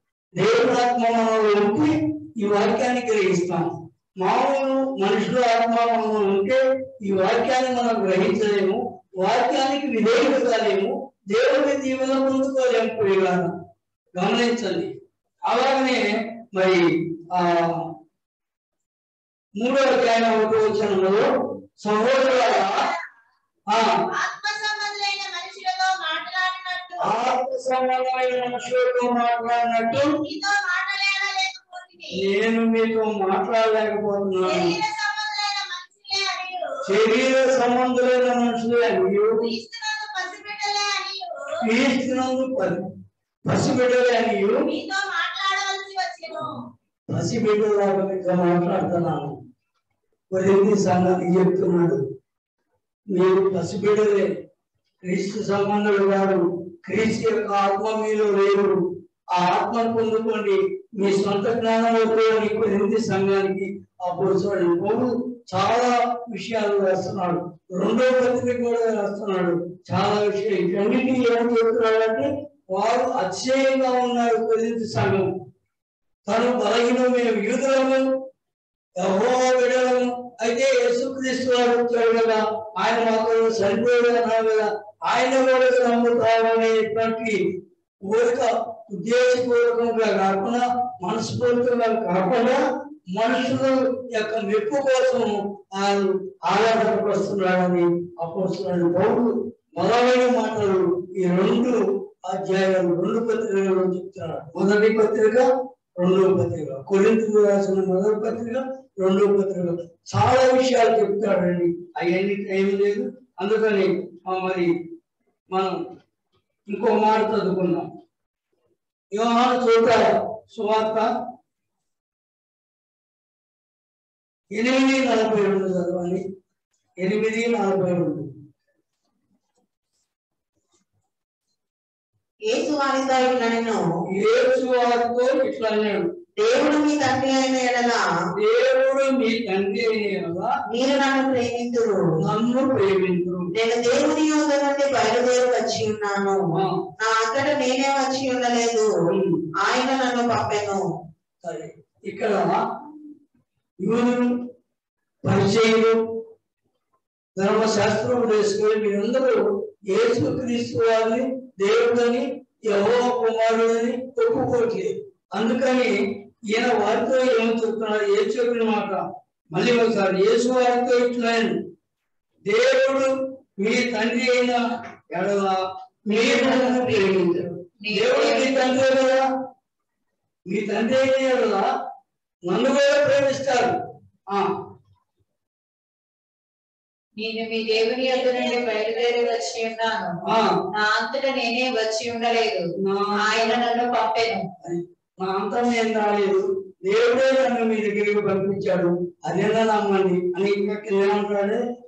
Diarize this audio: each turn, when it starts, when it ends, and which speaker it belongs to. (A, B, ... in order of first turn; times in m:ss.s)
0:00.4-0:13.5 A
0:14.1-0:14.9 A
0:15.5-0:17.9 A
0:19.6-0:21.2 A
0:21.8-0:22.8 A
0:22.3-0:23.0 B
0:24.1-0:27.2 B
0:27.0-0:30.1 A
0:30.2-0:32.2 B
0:32.1-0:34.7 A
0:34.4-0:36.7 B
0:36.8-0:39.4 A
0:39.4-0:41.6 B
0:41.6-0:42.8 A
0:43.4-0:44.6 A
0:44.6-0:46.6 B
0:47.1-0:49.4 A
0:50.3-0:52.0 A
0:53.1-0:54.3 A
0:55.0-0:58.8 A
0:59.3-1:15.3 A
1:16.2-1:18.1 A
1:19.0-1:27.4 A
1:28.0-1:54.7 A
1:55.5-1:55.8 A
1:56.7-1:57.9 A
1:59.1-2:01.1 A
2:04.5-2:06.2 A
2:07.0-2:08.3 A
2:12.5-2:13.8 C
2:14.1-2:16.1 A
2:16.4-2:18.0 C
2:18.3-2:20.5 A
2:20.7-2:22.0 C
2:22.2-2:23.5 A
2:23.5-2:26.4 C
2:26.5-2:26.8 A
2:27.0-2:28.9 C
2:29.1-2:29.4 A
2:29.6-2:30.8 C
2:31.4-2:32.5 A
2:33.8-2:34.4 A
2:35.2-2:36.0 A
2:37.4-2:46.0 A
2:46.5-2:51.6 A
2:52.4-2:59.2 A
2:56.1-2:58.5 D
3:00.4-3:01.6 A
3:02.5-3:03.7 A
3:07.2-3:10.2 D
3:07.7-3:09.5 B
3:10.2-3:10.5 A
3:10.7-3:14.4 D
3:12.8-3:13.6 A
3:14.6-3:21.6 A